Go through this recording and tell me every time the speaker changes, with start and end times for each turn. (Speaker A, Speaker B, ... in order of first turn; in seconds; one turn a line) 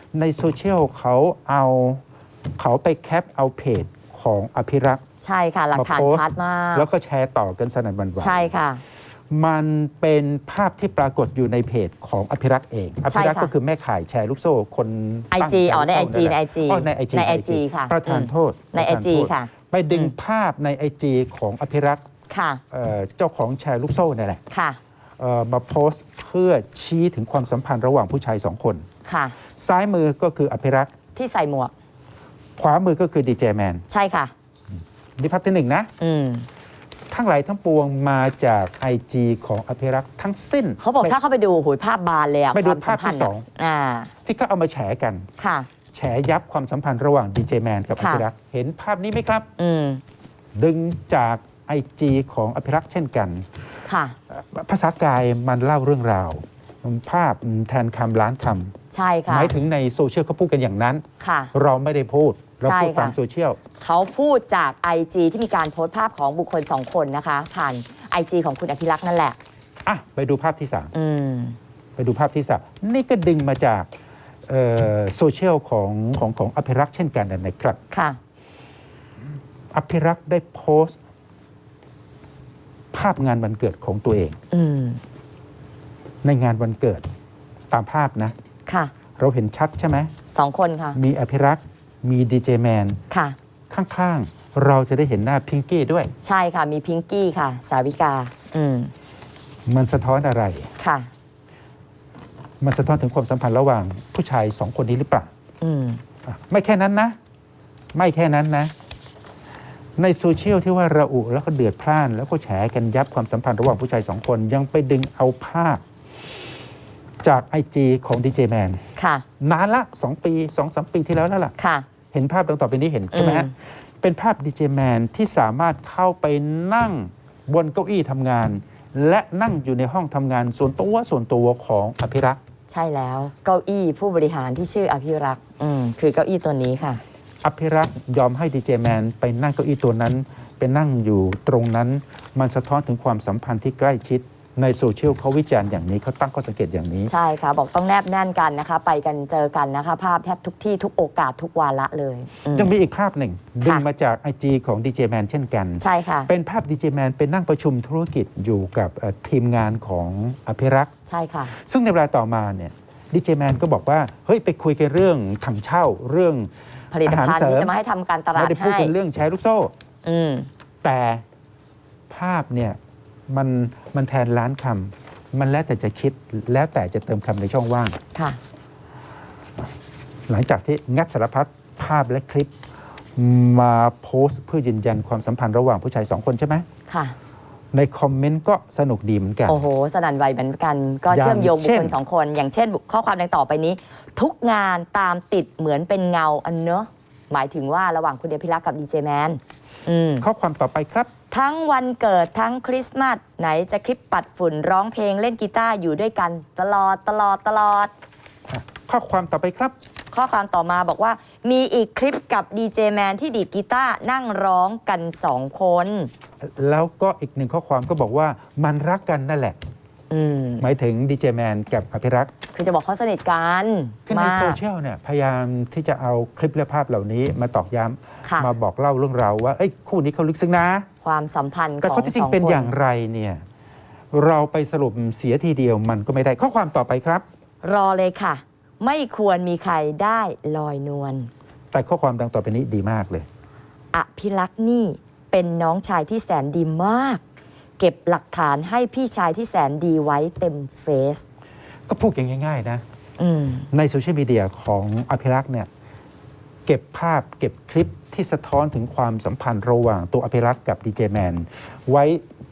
Speaker A: 0.1-2.0
Speaker A: 2.6-5.0
Speaker B: 5.2-6.9
Speaker A: 5.7-8.5
Speaker B: 8.2-8.8
Speaker A: 9.3-22.0
Speaker B: 13.1-13.5
Speaker B: 15.3-20.1
Speaker B: 22.3-22.6
Speaker A: 22.7-24.4
Speaker B: 24.5-24.8
Speaker A: 25.2-28.9
Speaker B: 29.1-29.4
Speaker A: 29.6-30.9
Speaker B: 31.1-31.7
Speaker A: 32.6-33.9
Speaker B: 33.9-34.3
Speaker A: 35.2-35.9
Speaker B: 36.0-36.5
Speaker A: 37.1-41.2
Speaker B: 40.8-44.1
Speaker A: 42.5-43.5
Speaker A: 44.3-45.3
Speaker B: 45.4-45.7
Speaker A: 45.9-49.5
Speaker B: 48.0-48.2
Speaker B: 49.6-50.0
Speaker A: 50.5-53.5
Speaker B: 53.9-54.2
Speaker A: 54.3-58.8
Speaker B: 58.9-59.6
Speaker A: 59.3-61.0
Speaker B: 61.2-61.5
Speaker A: 61.5-63.6
Speaker B: 62.6-63.2
Speaker B: 63.8-69.4
Speaker A: 69.9-70.9
Speaker B: 70.9-71.6
Speaker A: 72.0-73.9
Speaker A: 74.5-77.8
Speaker B: 77.9-78.2
Speaker A: 79.7-81.0
Speaker A: 82.9-84.4
Speaker B: 84.5-85.0
Speaker A: 86.2-87.0
Speaker A: 87.7-88.3
Speaker B: 88.7-88.9
Speaker A: 89.2-90.1
Speaker B: 90.3-91.0
Speaker A: 91.0-93.0
Speaker B: 93.1-93.4
Speaker A: 93.7-96.1
Speaker B: 96.2-98.9
Speaker A: 99.7-100.7
Speaker B: 100.8-101.1
Speaker A: 102.6-105.3
Speaker B: 105.6-106.0
Speaker A: 106.2-107.2
Speaker A: 107.9-108.7
Speaker A: 110.0-115.8
Speaker A: 117.2-118.8
Speaker B: 119.0-119.2
Speaker A: 119.4-121.5
Speaker B: 121.6-121.9
Speaker A: 122.1-132.4
Speaker B: 123.1-123.5
Speaker B: 132.7-137.0
Speaker A: 137.4-147.1
Speaker B: 147.1-152.7
Speaker A: 152.5-160.9
Speaker B: 155.8-156.3
Speaker B: 161.1-161.5
Speaker A: 161.5-166.5
Speaker B: 166.9-168.9
Speaker A: 167.0-167.7
Speaker A: 168.3-169.7
Speaker B: 170.0-170.5
Speaker A: 170.8-171.2
Speaker A: 172.1-172.8
Speaker A: 173.3-178.0
Speaker B: 178.1-178.4
Speaker A: 180.3-182.5
Speaker A: 183.2-186.7
Speaker B: 186.9-187.2
Speaker A: 187.7-189.6
Speaker B: 189.5-200.3
Speaker A: 191.1-192.0
Speaker A: 200.2-201.1
Speaker B: 201.3-207.9
Speaker A: 208.5-209.8
Speaker B: 210.1-216.1
Speaker A: 216.4-219.6
Speaker B: 220.1-220.7
Speaker A: 220.6-222.3
Speaker B: 222.5-224.6
Speaker A: 224.1-230.9
Speaker B: 228.3-228.5
Speaker B: 231.0-232.7
Speaker A: 231.8-233.4
Speaker A: 234.1-237.2
Speaker B: 237.6-241.3
Speaker A: 241.7-243.3
Speaker B: 243.9-247.2
Speaker B: 247.8-251.2
Speaker A: 251.9-252.8
Speaker B: 253.2-253.7
Speaker A: 253.7-255.7
Speaker A: 256.7-262.2